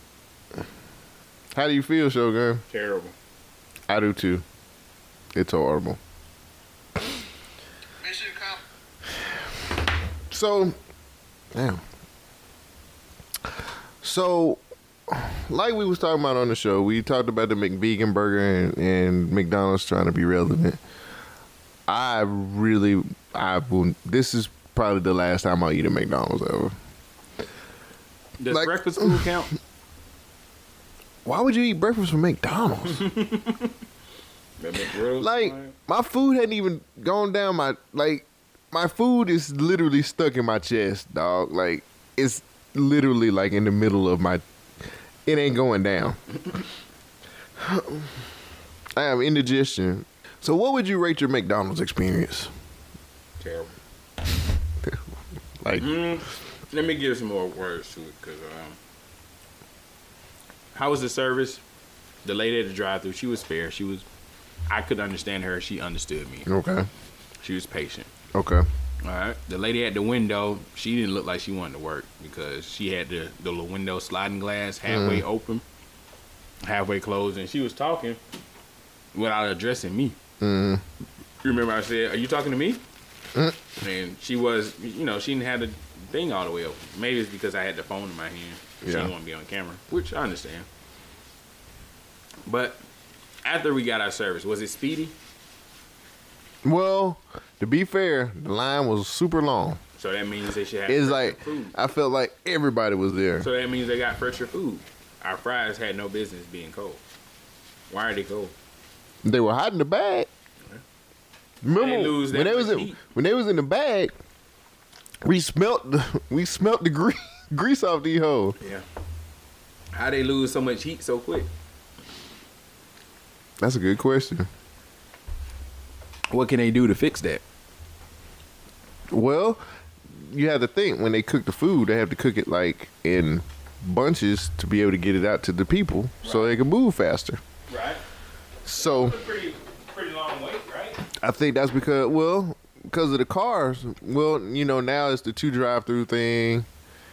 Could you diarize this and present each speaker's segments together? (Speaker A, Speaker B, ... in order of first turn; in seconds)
Speaker A: 1.5-2.6, 3.9-4.4, 5.3-6.0, 8.0-8.6, 10.3-10.7, 11.5-11.8, 14.0-20.8, 21.9-26.7, 28.5-29.3, 31.2-33.1, 35.2-44.4, 45.2-46.2, 47.6-48.1, 49.0-52.5, 55.6-55.9, 66.5-66.9, 68.3-68.7, 74.9-75.2, 80.4-80.8, 88.8-89.1, 96.6-99.8, 100.9-103.5, 109.2-110.3, 111.6-114.1, 115.2-118.6, 123.6-124.5, 129.1-137.4, 138.6-139.2, 141.2-146.7
Speaker B: 2.7-3.1, 28.4-29.5, 33.0-33.7, 34.6-35.7, 53.4-53.7, 55.7-58.8, 60.7-61.6, 62.2-64.0, 64.7-66.5, 67.4-68.1, 69.0-75.6, 76.6-78.2, 79.1-80.2, 81.4-82.8, 83.8-90.7, 92.5-92.8, 93.4-95.1, 100.0-101.8, 103.4-107.0, 107.9-108.5, 111.7-113.0, 118.6-118.8, 119.9-121.5, 126.3-127.4, 136.2-136.6, 137.7-138.0, 138.7-141.0